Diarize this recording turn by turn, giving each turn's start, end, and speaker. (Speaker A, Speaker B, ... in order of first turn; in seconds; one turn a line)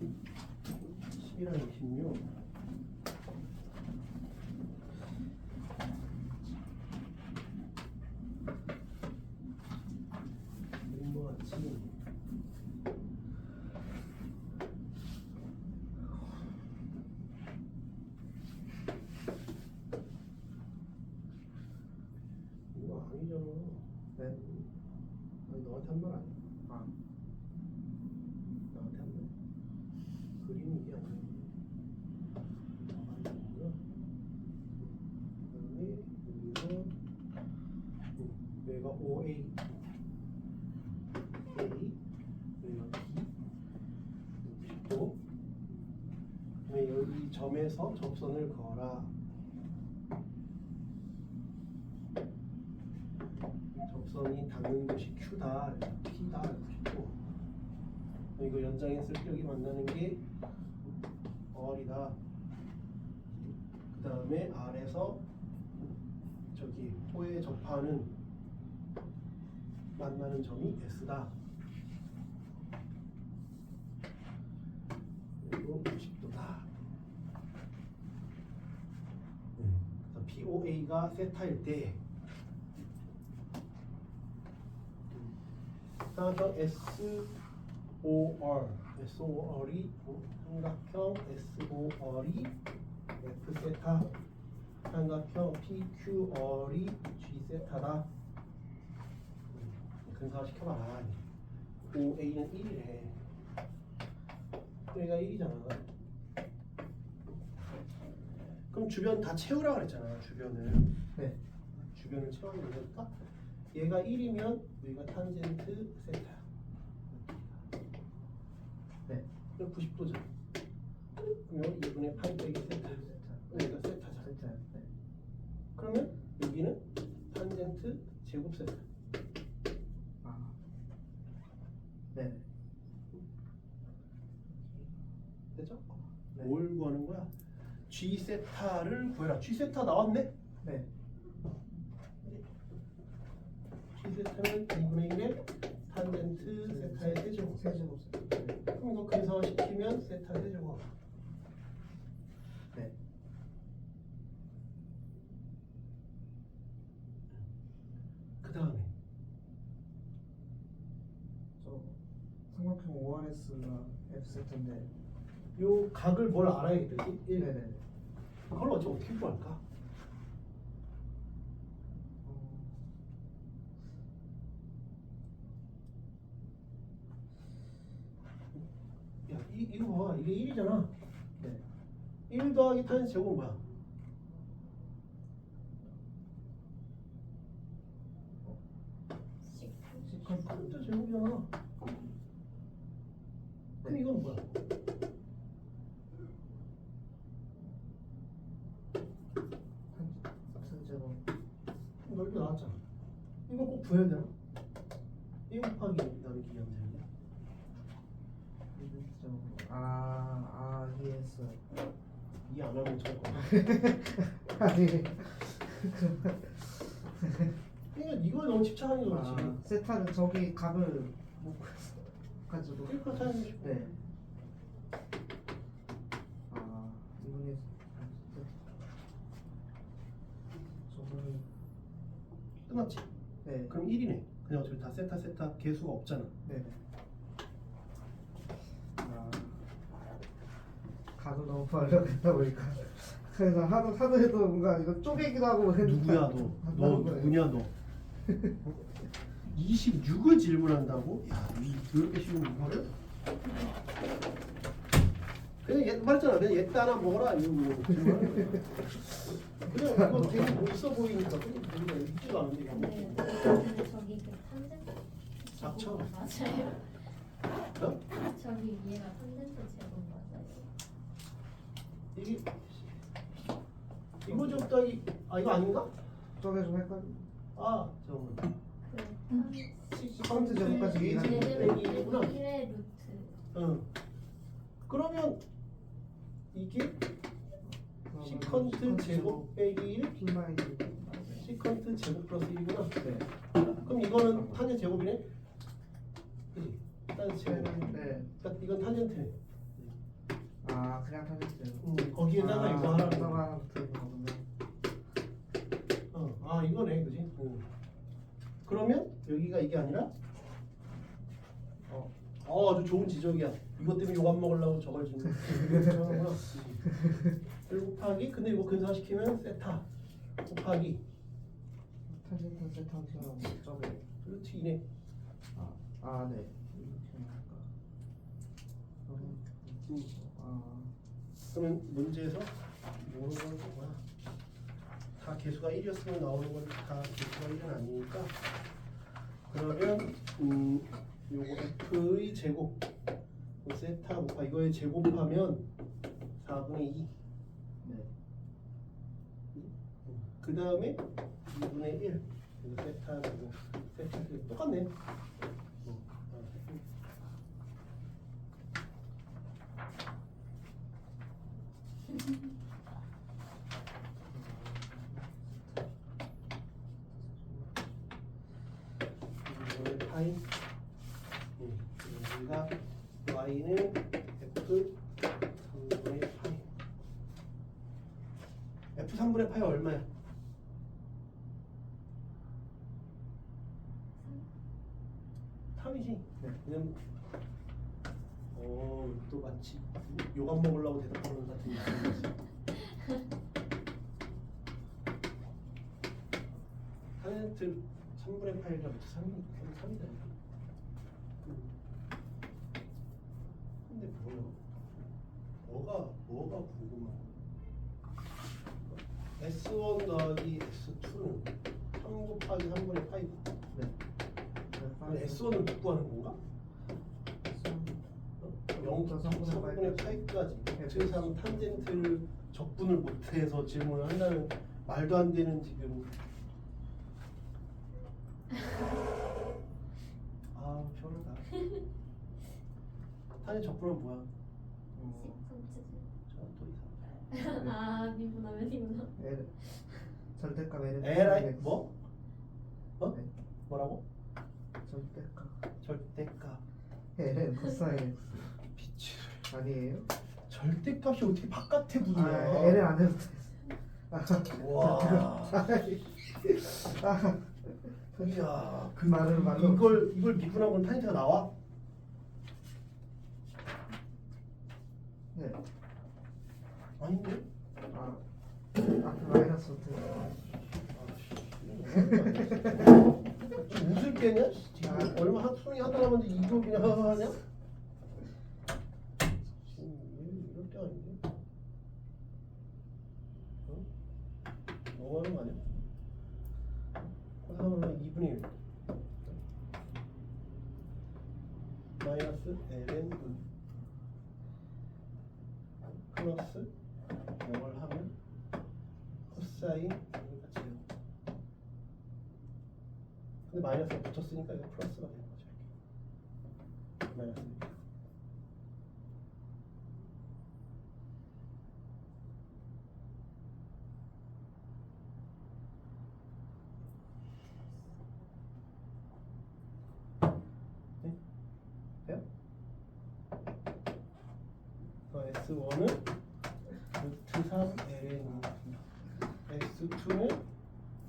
Speaker A: 1.1-2.3
Speaker A: 10.8-11.9
Speaker A: 22.7-24.7
Speaker A: 25.5-26.4
Speaker A: 28.7-29.3
Speaker A: 30.4-31.5
Speaker A: 32.8-33.8
Speaker A: 35.5-36.9
Speaker A: 38.2-39.6
Speaker A: 41.5-42.0
Speaker A: 42.6-43.3
Speaker A: 44.4-45.2
Speaker A: 46.7-49.1
Speaker A: 53.8-57.2
Speaker A: 58.4-60.2
Speaker A: 61.5-62.2
Speaker A: 63.4-65.2
Speaker A: 66.5-68.1
Speaker A: 70.0-71.3
Speaker A: 75.4-76.7
Speaker A: 79.6-82.0
Speaker A: 85.1-85.3
Speaker A: 86.1-87.3
Speaker A: 88.0-92.5
Speaker A: 93.2-94.1
Speaker A: 94.8-98.1
Speaker A: 99.5-101.2
Speaker A: 101.9-103.2
Speaker A: 104.9-105.8
Speaker A: 108.7-110.9
Speaker A: 111.7-116.4
Speaker A: 117.1-117.7
Speaker A: 119.6-120.3
Speaker A: 121.4-124.3
Speaker B: 122.5-124.9
Speaker A: 125.8-128.8
Speaker B: 130.2-130.6
Speaker B: 132.1-132.4
Speaker B: 134.5-135.0
Speaker A: 135.5-137.3
Speaker A: 137.9-140.3
Speaker B: 140.6-140.9
Speaker A: 143.9-147.6
Speaker B: 146.4-148.6
Speaker A: 148.7-150.9
Speaker A: 158.4-158.9
Speaker B: 161.6-164.9
Speaker A: 165.6-167.5
Speaker B: 167.3-167.8
Speaker A: 168.5-169.6
Speaker B: 172.2-172.9
Speaker A: 179.3-180.9
Speaker A: 182.3-183.6
Speaker C: 189.4-190.1
Speaker B: 190.0-190.9
Speaker A: 190.2-191.5
Speaker A: 193.8-194.5
Speaker B: 199.9-201.2
Speaker A: 202.0-202.8
Speaker A: 203.5-204.3
Speaker A: 205.5-207.1
Speaker B: 208.7-211.6
Speaker A: 212.4-213.6
Speaker B: 213.3-217.5
Speaker A: 217.9-219.6
Speaker B: 219.0-223.9
Speaker A: 222.8-224.0
Speaker B: 226.5-228.5
Speaker B: 230.9-231.5
Speaker A: 232.7-233.1
Speaker B: 233.4-233.8
Speaker A: 233.7-236.3
Speaker B: 236.4-236.8
Speaker B: 239.0-239.7
Speaker B: 241.2-247.5
Speaker A: 245.8-247.7
Speaker B: 248.2-248.6
Speaker A: 249.5-252.9
Speaker A: 255.6-263.4
Speaker B: 260.1-260.5
Speaker C: 262.6-267.1
Speaker A: 265.6-266.1
Speaker A: 267.8-268.0
Speaker C: 268.1-270.7
Speaker A: 272.1-272.9
Speaker A: 274.2-275.9
Speaker B: 274.2-274.7
Speaker B: 276.4-277.3
Speaker A: 277.6-278.5
Speaker C: 278.8-283.4
Speaker A: 279.9-282.4
Speaker B: 280.1-281.9
Speaker A: 283.5-283.9
Speaker A: 284.9-285.4
Speaker A: 286.5-287.0
Speaker B: 287.6-291.5
Speaker A: 288.2-290.1
Speaker A: 291.4-293.2
Speaker B: 293.0-293.3
Speaker A: 293.8-295.3
Speaker B: 294.1-294.7
Speaker A: 296.5-299.9
Speaker B: 297.4-298.4
Speaker B: 300.6-304.5
Speaker A: 301.8-303.4
Speaker A: 306.1-307.7
Speaker A: 308.6-310.1
Speaker A: 312.4-316.9
Speaker B: 315.5-316.0
Speaker A: 317.6-319.9
Speaker A: 320.4-321.0
Speaker B: 322.1-324.1
Speaker A: 324.2-324.8
Speaker B: 325.5-327.7
Speaker B: 329.1-330.9
Speaker A: 331.5-334.0
Speaker A: 335.2-338.4
Speaker A: 339.5-342.8
Speaker A: 343.6-345.6
Speaker A: 346.4-347.1
Speaker B: 347.8-348.1
Speaker A: 349.5-354.9
Speaker A: 355.8-356.8
Speaker B: 364.2-365.9
Speaker B: 367.1-368.0
Speaker A: 369.4-370.4
Speaker A: 371.6-375.0
Speaker A: 375.6-376.6
Speaker A: 378.9-380.1
Speaker A: 385.8-387.0
Speaker A: 388.5-392.4
Speaker A: 397.2-400.3
Speaker A: 401.4-401.7
Speaker A: 403.9-404.6
Speaker A: 405.6-407.4
Speaker A: 409.4-413.5
Speaker B: 414.7-415.7
Speaker A: 415.1-416.4
Speaker B: 417.4-418.0
Speaker A: 418.4-426.1
Speaker B: 418.7-421.9
Speaker A: 430.5-431.5
Speaker A: 433.4-434.3
Speaker B: 434.9-435.4
Speaker C: 435.1-436.1
Speaker A: 436.3-437.2
Speaker C: 437.3-440.0
Speaker B: 439.1-439.5
Speaker B: 440.2-441.8
Speaker A: 441.0-441.9
Speaker A: 443.7-444.0
Speaker B: 444.9-445.6
Speaker A: 445.8-446.6
Speaker B: 447.1-448.4
Speaker A: 448.7-449.5
Speaker B: 449.5-450.1
Speaker A: 450.4-452.9
Speaker B: 452.1-460.1
Speaker A: 454.5-455.9
Speaker A: 458.1-461.5
Speaker B: 465.3-465.6
Speaker A: 467.0-467.4
Speaker B: 467.9-468.2
Speaker B: 468.8-470.6
Speaker A: 470.9-477.4
Speaker B: 471.9-472.6
Speaker B: 474.9-475.2
Speaker A: 479.6-481.2
Speaker A: 484.9-485.6
Speaker A: 487.4-488.6
Speaker A: 492.0-493.4
Speaker A: 495.8-496.7
Speaker A: 497.4-498.1
Speaker A: 499.3-500.8
Speaker A: 503.5-505.7
Speaker A: 507.1-507.8
Speaker A: 525.1-526.0
Speaker A: 526.9-528.6
Speaker A: 529.5-530.4